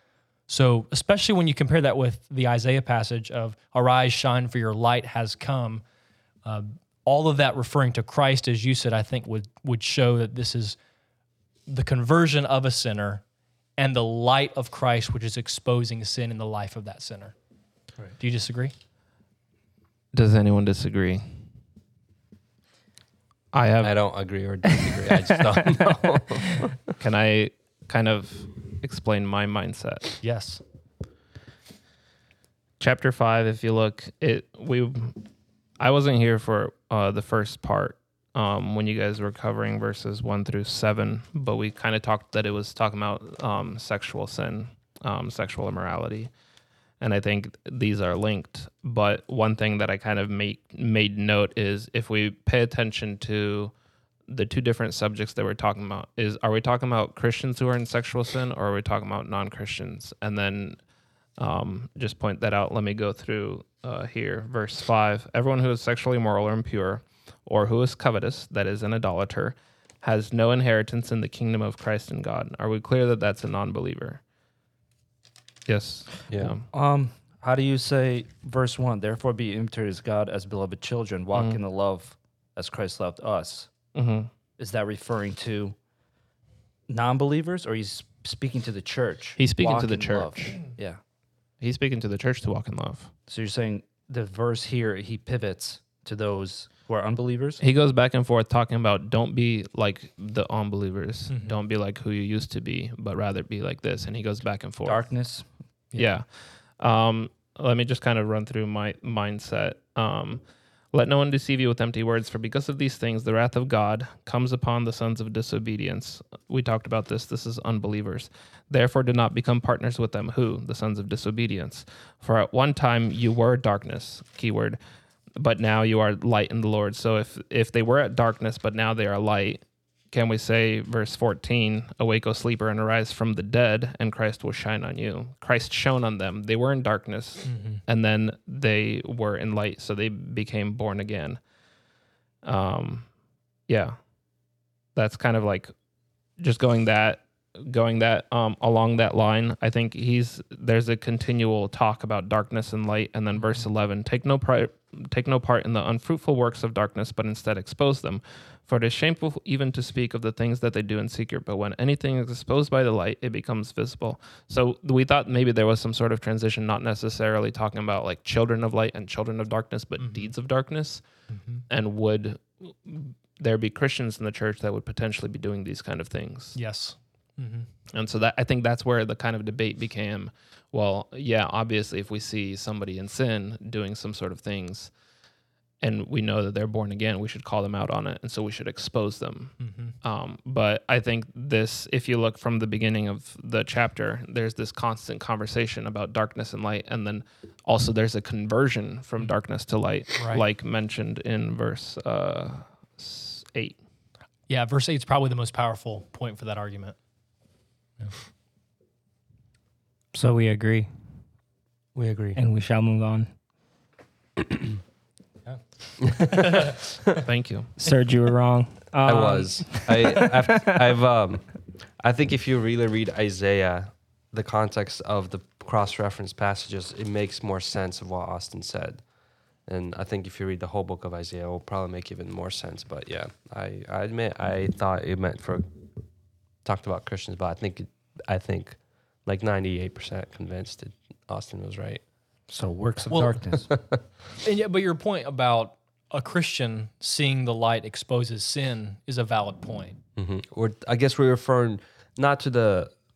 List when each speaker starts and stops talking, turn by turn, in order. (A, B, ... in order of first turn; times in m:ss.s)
0:00.5-0:05.8 A
0:06.4-0:10.8 A
0:11.7-0:13.2 A
0:13.8-0:17.4 A
0:18.2-0:18.7 A
0:20.1-0:21.5 B
0:23.5-0:24.2 B
0:23.8-0:26.7 C
0:27.0-0:30.2 B
0:30.2-0:30.6 A
0:32.8-0:35.2 B
0:35.8-0:46.3 B
0:47.0-0:53.7 B
0:54.3-1:00.8 B
1:01.4-1:14.2 B
1:15.6-1:16.7 B
1:16.3-1:16.6 C
1:16.7-1:23.7 D
1:21.3-1:21.6 B
1:23.9-1:24.3 B
1:24.6-1:25.7 D
1:26.9-1:31.0 D
1:29.4-1:30.6 B
1:31.6-1:33.1 B
1:33.3-1:37.6 D
1:37.6-1:45.1 B
1:41.3-1:41.6 A
1:44.8-1:45.5 D
1:45.9-2:04.8 B
2:05.4-2:21.4 B
2:17.4-2:17.8 A
2:22.4-2:23.1 B
2:23.7-2:24.0 B
2:24.9-2:25.7 B
2:26.4-2:56.8 B
2:50.0-2:50.3 A
2:51.3-2:51.6 A
2:56.5-2:57.7 A
2:57.9-3:04.9 B
3:05.8-3:23.8 B
3:09.6-3:09.9 A
3:20.2-3:20.4 A
3:24.5-3:27.0 A
3:30.1-3:30.9 E
3:32.4-3:33.3 E
3:36.1-3:36.5 C
3:36.4-3:36.6 A
3:37.2-3:37.7 B
3:37.8-3:40.7 E
3:39.0-3:41.5 C
3:42.0-3:49.0 C
3:49.6-3:55.8 C
3:56.6-4:02.0 C
4:02.5-4:03.7 D
4:03.1-4:03.4 A
4:03.7-4:04.0 C
4:04.4-4:10.0 A
4:10.2-4:12.9 C